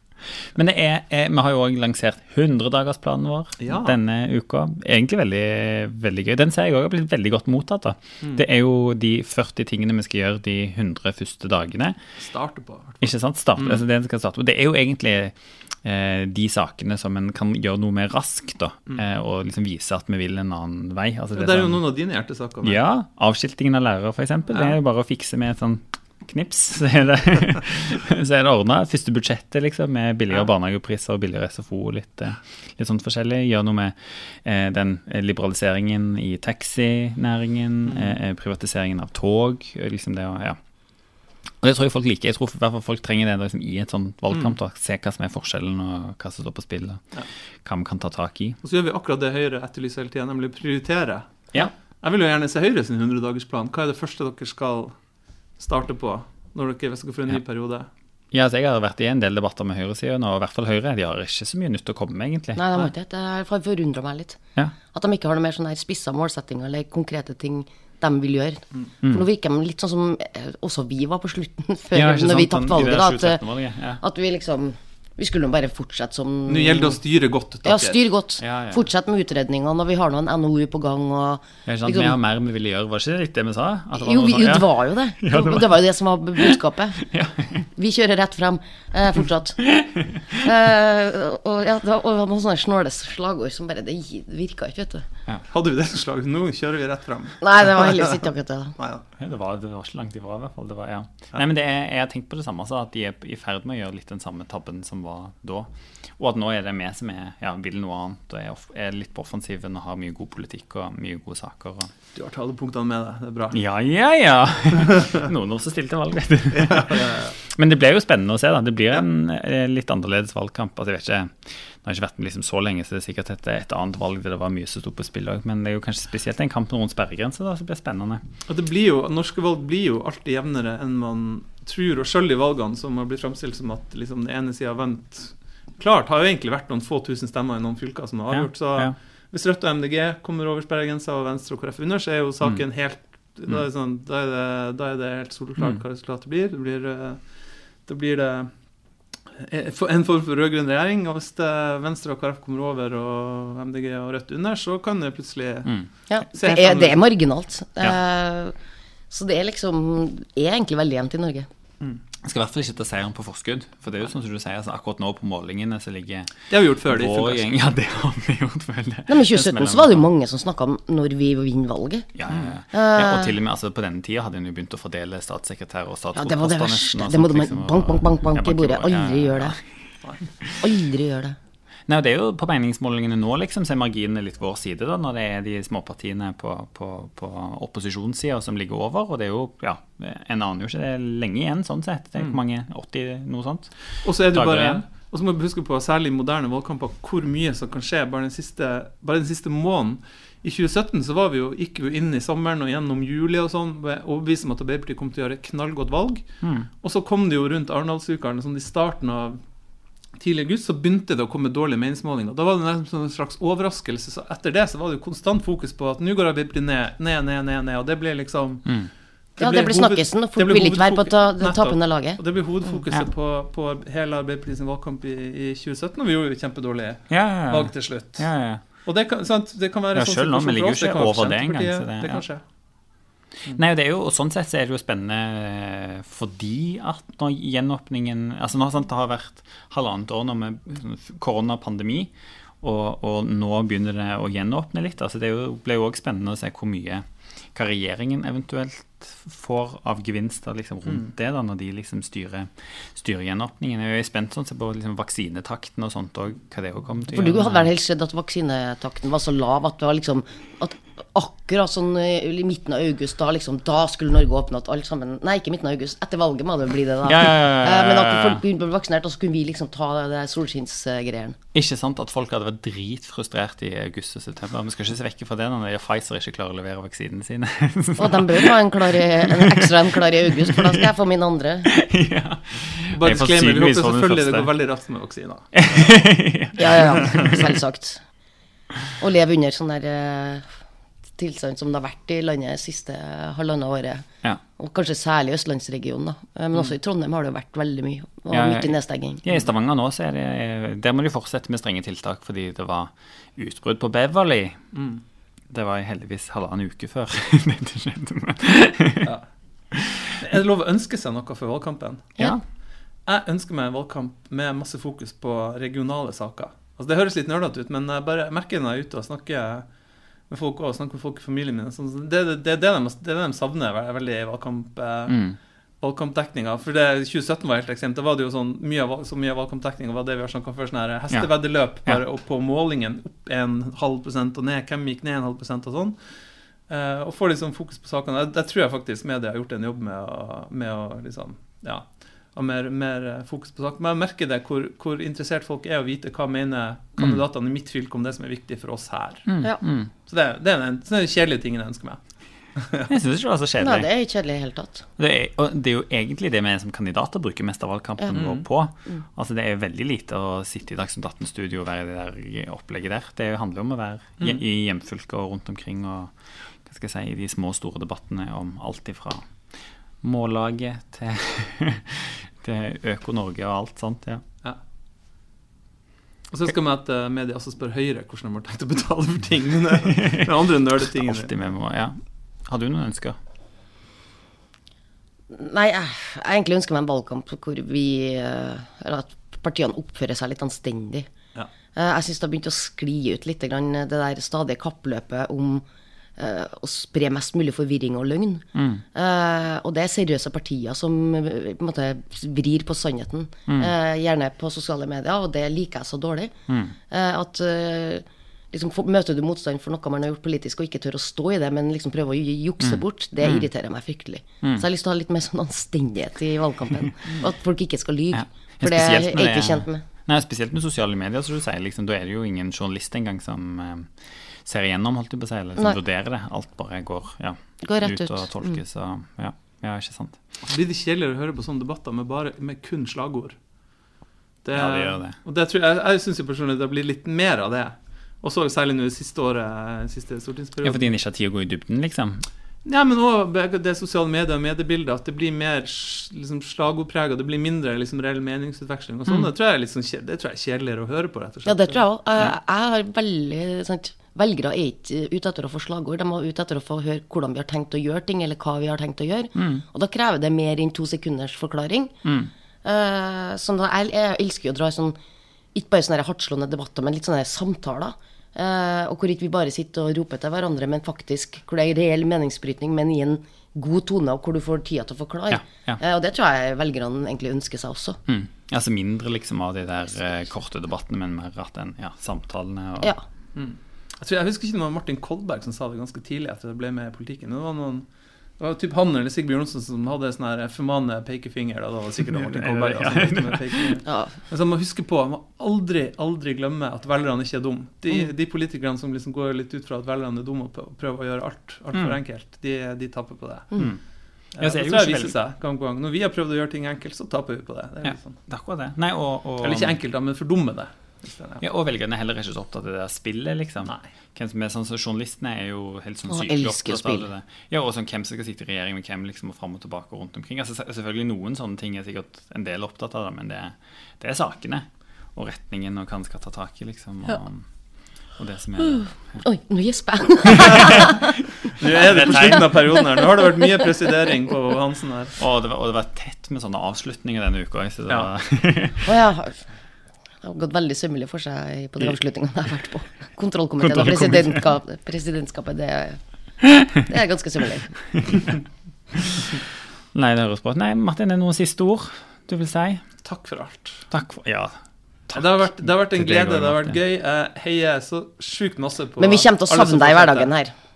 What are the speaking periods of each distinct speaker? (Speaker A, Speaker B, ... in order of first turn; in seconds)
Speaker A: 0.4-12.0, 13.0-21.8, 22.6-40.6, 41.6-48.6, 58.3-62.7, 71.9-74.0, 78.4-78.8, 81.7-85.8, 86.3-87.6, 89.8-90.1, 99.2-111.9, 113.5-128.2, 138.3-138.9, 142.4-142.7, 155.6-155.9, 162.2-170.1, 172.1-179.7, 180.4-180.7, 181.9-194.8, 206.4-206.7, 218.6-218.9, 227.1-228.6, 229.9-232.2, 233.5-257.7, 267.1-268.4, 271.5-280.9, 281.6-284.5, 285.5-287.4, 298.3-304.7, 305.5-309.1, 325.1-325.4, 331.1-332.0, 349.2-349.9, 352.9-353.9, 355.0-369.4, 370.0-374.2, 381.0-383.2, 398.5-398.8, 403.5-403.7, 406.5-406.7, 412.6-413.5, 418.1-430.2, 434.5-435.2, 440.6-442.3, 459.3-459.6, 462.0-462.3, 475.3-475.8, 478.1-482.9, 492.1-493.8, 503.6-505.1, 507.8-509.8, 511.4-527.5, 528.0-529.3, 530.4-530.9, 531.8-532.6, 535.2-538.9, 543.6-544.4, 549.9-552.8, 553.9-556.8
Speaker B: 3.6-4.0, 12.2-13.8, 21.3-22.8, 37.9-38.2, 48.6-55.0, 55.6-57.9, 76.5-78.0, 95.5-98.1, 98.8-99.0, 112.1-113.6, 116.5-117.3, 128.5-148.7, 149.4-157.0, 166.5-167.4, 194.0-209.4, 210.2-232.4, 282.9-286.1, 304.7-305.0, 309.0-309.3, 310.1-312.2, 313.1-319.7, 320.2-352.9, 358.1-358.4, 376.3-381.3, 430.4-433.4, 434.4-440.9, 442.6-451.8, 483.3-487.9, 488.4-508.2, 509.4-511.4, 531.6-535.2, 553.0-553.9, 555.1-560.3
Speaker C: 62.5-77.0, 77.6-82.2, 83.9-89.8, 90.3-95.0, 97.4-98.8, 156.1-158.5, 159.1-161.5, 169.1-172.1, 172.7-173.4, 176.1-179.6, 180.6-181.3, 219.4-222.2, 257.1-271.4, 278.0-281.7, 286.6-288.0, 289.0-290.5, 291.1-299.2, 353.6-354.8, 385.3-391.1, 391.7-395.6, 396.2-406.3, 406.9-419.8, 427.6-428.6, 451.4-461.9, 462.6-465.0, 465.5-478.0, 493.8-494.1, 516.1-517.1, 529.2-531.0, 532.1-533.0, 538.8-539.5, 540.2-546.0, 546.5-547.8, 559.0-560.5